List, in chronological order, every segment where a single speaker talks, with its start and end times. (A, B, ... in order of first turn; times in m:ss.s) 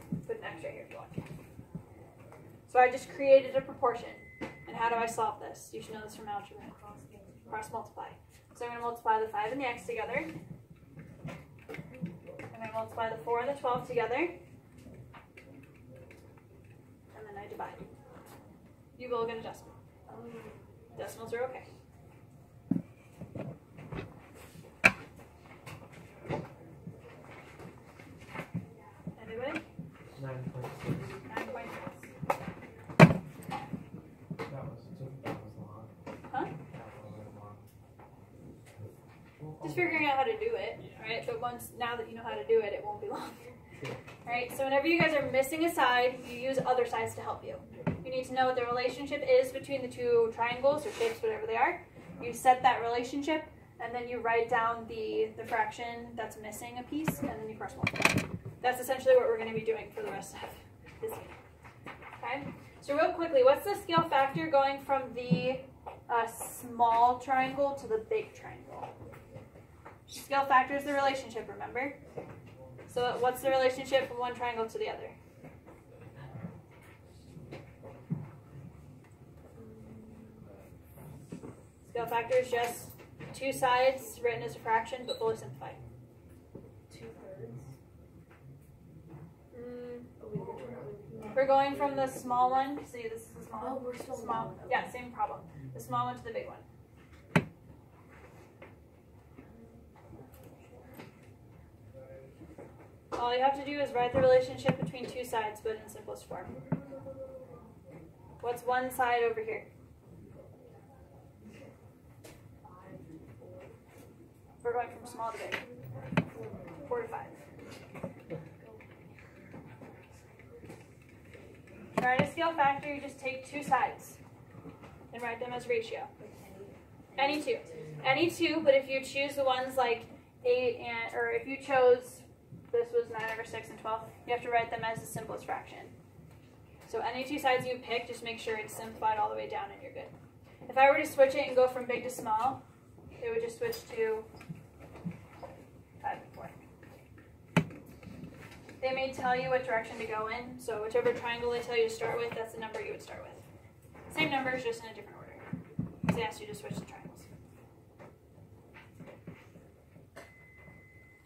0:00.2-0:01.2 A
0:02.7-0:06.8 A
0:06.8-0:07.5 B
0:07.5-0:10.3 A
0:12.5-0:14.4 A
0:17.1-0:17.9 A
0:19.0-0:19.8 A
0:20.1-0:20.7 B
0:20.9-0:21.6 A
0:29.2-0:29.6 A
0:30.1-0:31.2 C
0:31.2-0:32.0 A
0:34.4-0:35.9 C
0:36.7-0:37.6 C
0:39.4-0:40.0 C
0:39.6-0:43.5 A
0:44.2-1:01.4 A
1:02.2-1:08.9 A
1:10.1-1:12.0 A
1:12.9-1:15.1 A
1:19.5-1:20.4 B
1:21.9-1:25.8 A
1:26.9-1:27.7 B
1:29.5-1:32.6 B
1:31.3-1:36.6 A
1:33.5-1:34.9 B
1:39.5-1:40.9 B
1:43.1-1:46.6 A
1:48.4-1:49.7 A
1:52.6-1:53.8 B
1:54.6-1:55.7 A
1:56.3-1:57.1 B
1:56.9-1:57.4 A
1:58.6-1:59.0 B
2:01.9-2:04.2 A
2:05.1-2:06.1 A
2:06.2-2:08.0 B
2:07.2-2:15.9 A
2:16.9-2:20.1 A
2:20.6-2:22.6 A
2:23.2-2:24.3 A
2:26.0-2:26.5 A
2:28.8-2:33.4 A
2:34.1-2:35.4 A
2:36.1-2:37.3 A